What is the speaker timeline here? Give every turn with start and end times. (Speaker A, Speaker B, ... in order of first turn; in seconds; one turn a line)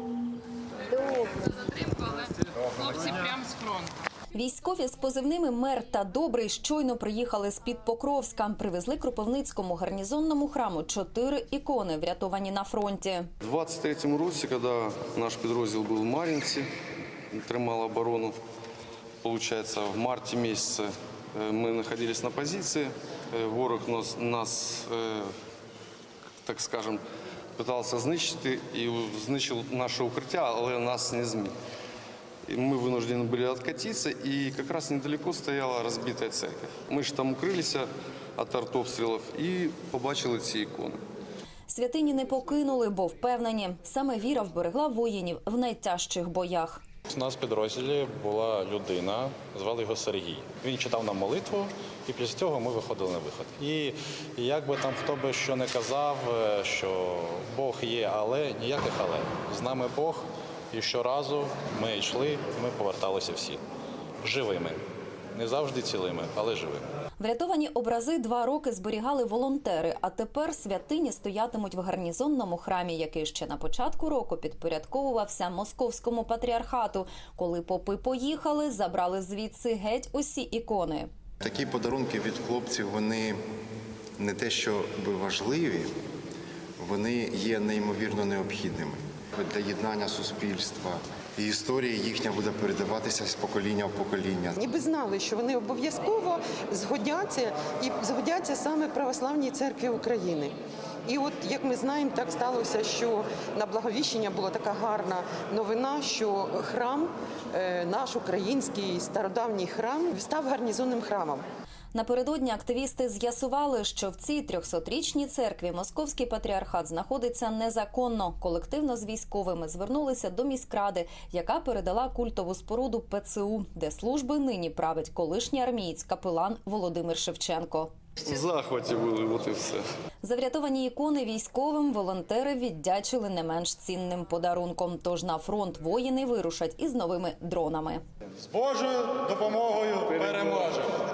Speaker A: 4.3-13.3
Speaker B: 13.4-16.7
Speaker B: 17.3-18.4
Speaker B: 19.2-25.3
Speaker B: 26.4-27.0
Speaker B: 27.6-31.5
Speaker B: 32.5-41.0
Speaker A: 41.7-46.8
Speaker C: 47.1-63.6
Speaker C: 64.2-64.8
Speaker C: 65.3-66.9
Speaker A: 67.2-81.1
Speaker D: 81.4-83.4
Speaker D: 84.2-85.9
Speaker D: 86.8-94.6
Speaker E: 94.6-111.5
Speaker A: 111.9-127.9
Speaker B: 128.2-129.8
Speaker A: 130.2-138.0
Speaker B: 140.1-140.8